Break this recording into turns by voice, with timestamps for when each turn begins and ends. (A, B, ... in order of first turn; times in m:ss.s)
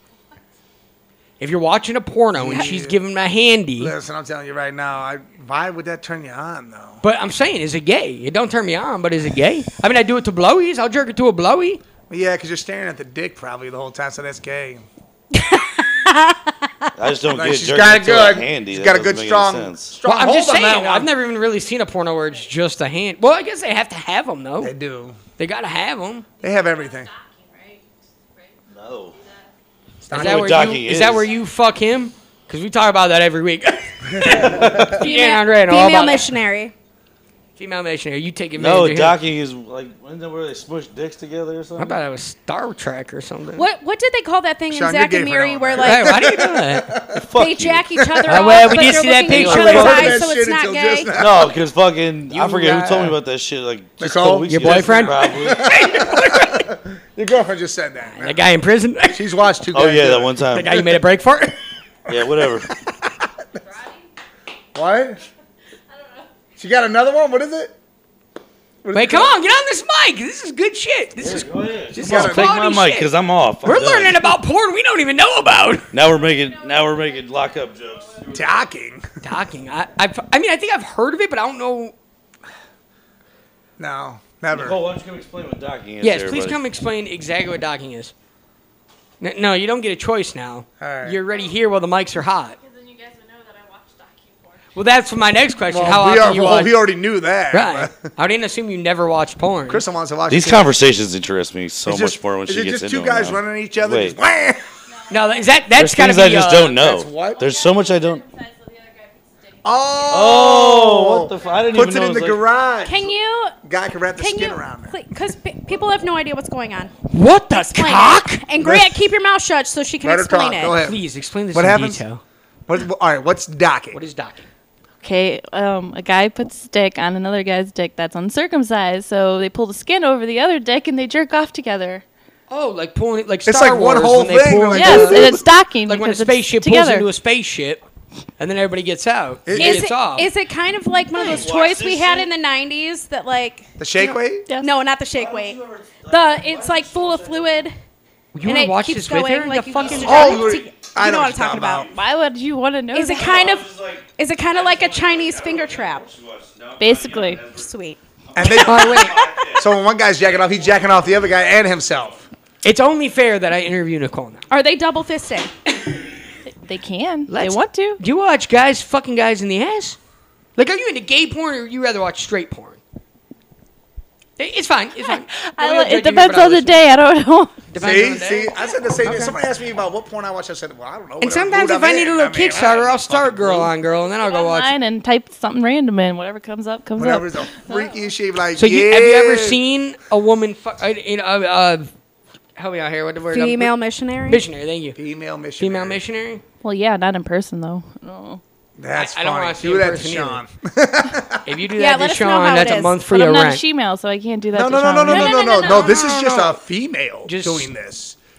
0:01.4-0:03.9 A
0:02.3-0:03.0 B
0:03.8-0:07.0 B
0:07.0-0:11.8 A
0:12.1-0:14.9 B
0:15.4-0:16.7 C
0:17.0-0:20.0 D
0:17.2-0:21.1 B
0:20.0-0:24.7 A
0:24.6-0:25.2 B
0:25.4-0:26.3 A
0:26.4-0:27.1 B
0:26.6-0:28.6 E
0:28.7-0:29.2 D
0:29.2-0:29.5 E
0:30.0-0:30.8 B
0:30.1-0:31.3 D
0:30.1-0:36.4 A
0:34.2-0:34.9 B
0:34.2-0:35.0 D
0:35.0-0:36.7 C
0:37.6-0:39.2 A
0:38.6-0:42.0 D
0:41.8-0:43.7 A
0:43.6-0:46.3 C
0:44.7-0:47.3 B
0:45.8-0:46.9 A
0:47.1-0:48.5 D
0:47.3-0:51.1 C
0:48.3-0:50.2 A
0:49.3-0:50.2 D
0:49.3-0:51.6 B
0:51.1-0:55.6 D
0:52.3-0:53.2 A
0:54.0-0:58.4 B
0:54.5-0:56.7 A
0:58.1-0:59.3 A
0:59.1-1:00.5 B
0:59.7-1:00.8 D
1:00.5-1:01.6 A
1:02.1-1:02.7 D
1:02.1-1:03.3 B
1:03.7-1:04.1 E
1:04.8-1:05.2 B
1:05.9-1:06.4 E
1:06.6-1:07.8 B
1:08.8-1:09.4 B
1:08.9-1:13.1 A
1:11.2-1:14.3 D
1:12.0-1:12.6 B
1:13.6-1:15.9 A
1:15.9-1:18.7 D
1:16.4-1:18.2 E
1:18.3-1:19.1 B
1:19.2-1:22.0 A
1:23.8-1:24.8 B
1:24.5-1:26.6 D
1:26.0-1:28.1 A
1:29.2-1:32.6 A
1:30.8-1:31.2 B
1:32.6-1:34.7 E
1:34.8-1:36.9 A
1:35.7-1:38.1 B
1:37.5-1:39.8 A
1:39.7-1:40.7 B
1:40.3-1:44.2 D
1:41.8-1:44.7 B
1:44.9-1:45.4 E
1:45.1-1:46.8 A
1:45.8-1:48.2 D
1:46.8-1:47.6 B
1:47.2-1:50.5 E
1:49.6-1:55.0 B
1:50.1-1:52.4 D
1:52.8-1:53.6 C
1:54.2-1:56.9 C
1:57.1-1:58.4 A
1:57.5-2:00.8 C
1:58.6-1:59.1 B
2:00.0-2:01.0 B
2:00.8-2:02.2 A
2:01.5-2:02.0 B
2:02.7-2:04.0 B
2:03.9-2:04.5 A
2:05.0-2:12.0 E
2:12.5-2:17.8 A
2:13.4-2:15.5 B
2:14.7-2:17.1 E
2:18.4-2:20.3 A
2:19.5-2:19.9 B
2:19.6-2:27.8 C
2:21.1-2:22.3 D
2:23.8-2:24.5 B
2:24.4-2:24.7 E
2:25.1-2:27.7 D
2:28.3-2:30.5 A
2:28.4-2:31.9 C
2:29.8-2:30.6 D
2:30.0-2:31.9 B
2:31.9-2:33.4 E
2:32.9-2:36.1 C
2:33.1-2:37.7 D
2:36.8-2:37.5 E
2:37.5-2:38.0 C
2:38.3-2:42.3 D
2:38.4-2:42.3 B
2:38.6-2:39.3 A
2:42.6-2:44.5 A
2:44.5-2:45.5 C
2:46.5-2:48.0 E
2:47.3-2:50.0 A
2:50.6-2:52.8 A
2:54.4-2:56.9 A
2:55.0-2:57.7 E
2:57.7-2:59.4 A
2:57.8-3:03.7 B
3:01.2-3:04.7 A
3:04.2-3:07.9 E
3:07.0-3:09.6 B
3:08.6-3:11.9 A
3:12.6-3:13.7 A
3:13.3-3:14.4 C
3:14.3-3:15.0 A
3:15.0-3:16.0 B
3:15.6-3:16.4 A
3:16.6-3:18.4 E
3:18.8-3:21.6 B
3:18.9-3:20.4 A
3:21.4-3:23.6 A
3:21.8-3:23.0 C
3:23.1-3:26.1 E
3:24.5-3:28.2 B
3:25.1-3:26.6 A
3:27.3-3:27.7 A